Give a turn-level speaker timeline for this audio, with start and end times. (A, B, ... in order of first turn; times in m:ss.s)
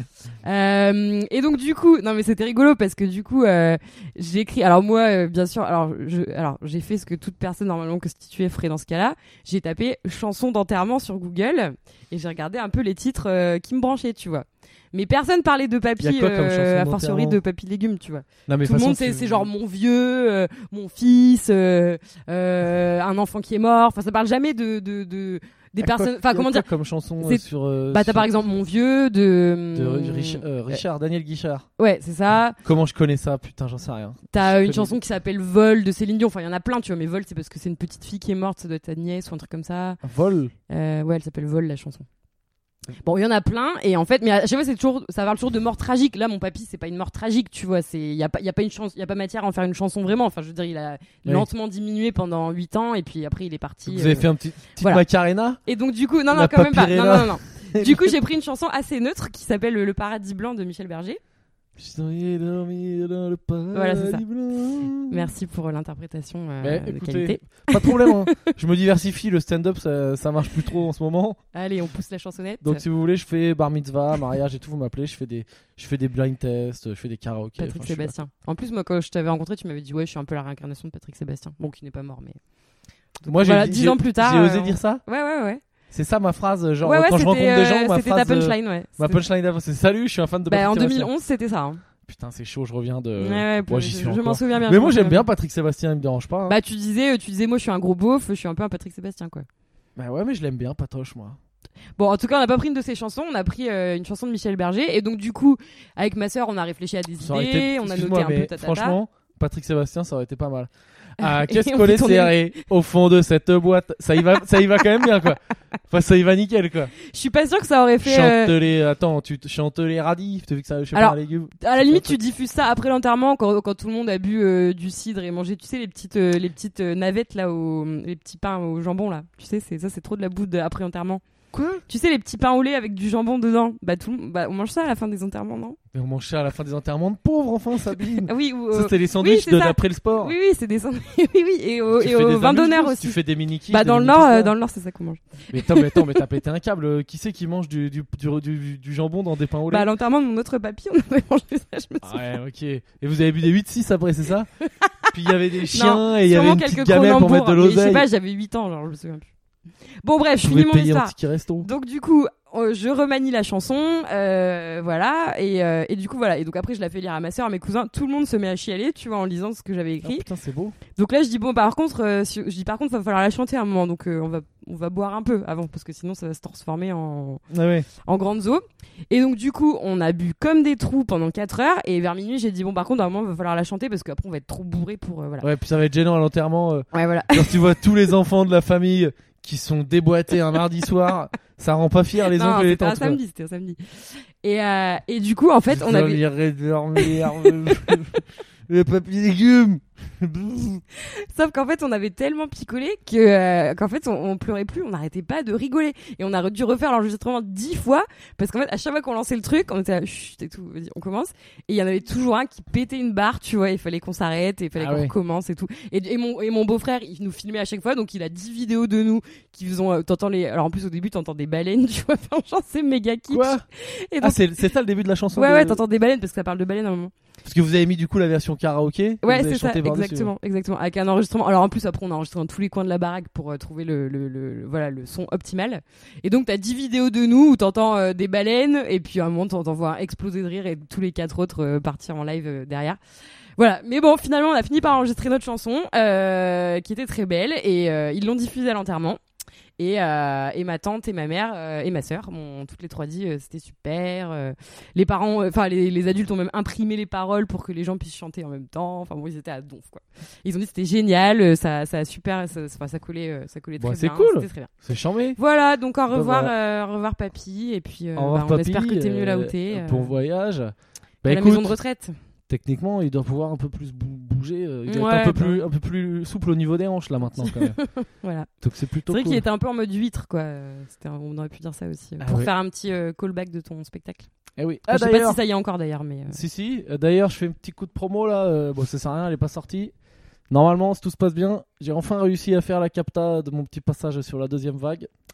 0:00.4-0:26.7 A
0:16.0-0:17.4 B
0:18.5-0:19.5 B
0:25.8-0:28.3 B
0:27.2-0:30.8 A
0:29.7-0:31.6 B
0:31.8-0:32.6 A
0:32.6-0:35.0 B
0:34.3-0:40.0 A
0:40.0-0:40.5 B
0:40.7-0:42.1 A
0:43.0-0:55.0 A
0:53.8-0:55.6 B
0:55.6-1:01.2 A
0:56.3-0:58.1 B
1:01.8-1:05.2 B
1:03.7-1:04.2 A
1:05.1-1:08.4 A
1:06.6-1:11.4 B
1:11.5-1:12.8 A
1:12.6-1:18.1 B
1:17.6-1:22.4 A
1:23.2-1:25.6 A
1:23.3-1:25.0 B
1:25.9-1:31.1 B
1:26.8-1:29.2 A
1:30.5-1:31.8 A
1:32.0-1:36.6 B
1:33.2-1:35.3 A
1:36.5-1:39.4 A
1:40.0-1:41.4 B
1:42.0-1:49.0 A
1:47.2-1:56.9 B
1:51.2-1:52.6 A
1:57.0-1:58.5 A
1:58.0-2:02.2 B
2:00.9-2:11.2 A
2:11.5-2:11.8 B
2:11.9-2:15.8 A
2:15.9-2:20.3 B
2:18.2-2:26.2 A
2:21.9-2:24.5 B
2:25.5-2:29.9 B
2:29.7-2:32.2 A
2:32.0-2:34.5 B
2:34.8-2:35.1 A
2:35.1-2:38.0 B
2:35.7-2:39.3 A
2:40.0-2:50.2 A
2:40.4-2:41.7 B
2:50.0-2:50.8 B
2:50.9-2:57.4 A
2:57.5-2:57.9 B
2:57.9-3:05.5 A
3:05.4-3:13.2 B
3:06.9-3:07.6 A
3:12.2-3:16.2 A
3:15.7-3:20.8 B
3:17.0-3:18.0 A
3:20.9-3:44.4 A
3:34.8-3:35.1 B
3:43.3-3:43.6 B
3:44.2-3:45.8 B
3:45.3-3:47.1 A
3:47.4-3:50.3 B
3:49.2-4:03.0 A
4:03.6-4:09.2 A
4:09.8-4:24.7 A
4:23.8-4:25.4 B
4:25.4-4:30.1 A
4:26.1-4:26.5 B
4:28.2-4:31.8 B
4:31.2-4:32.1 A
4:32.5-4:37.8 B
4:34.9-4:35.6 A
4:37.4-4:38.5 A
4:38.6-4:39.4 B
4:39.1-4:44.3 A
4:42.2-4:42.5 B
4:44.6-4:45.4 B
4:44.9-4:46.4 A
4:46.3-4:49.9 B
4:50.5-4:55.1 B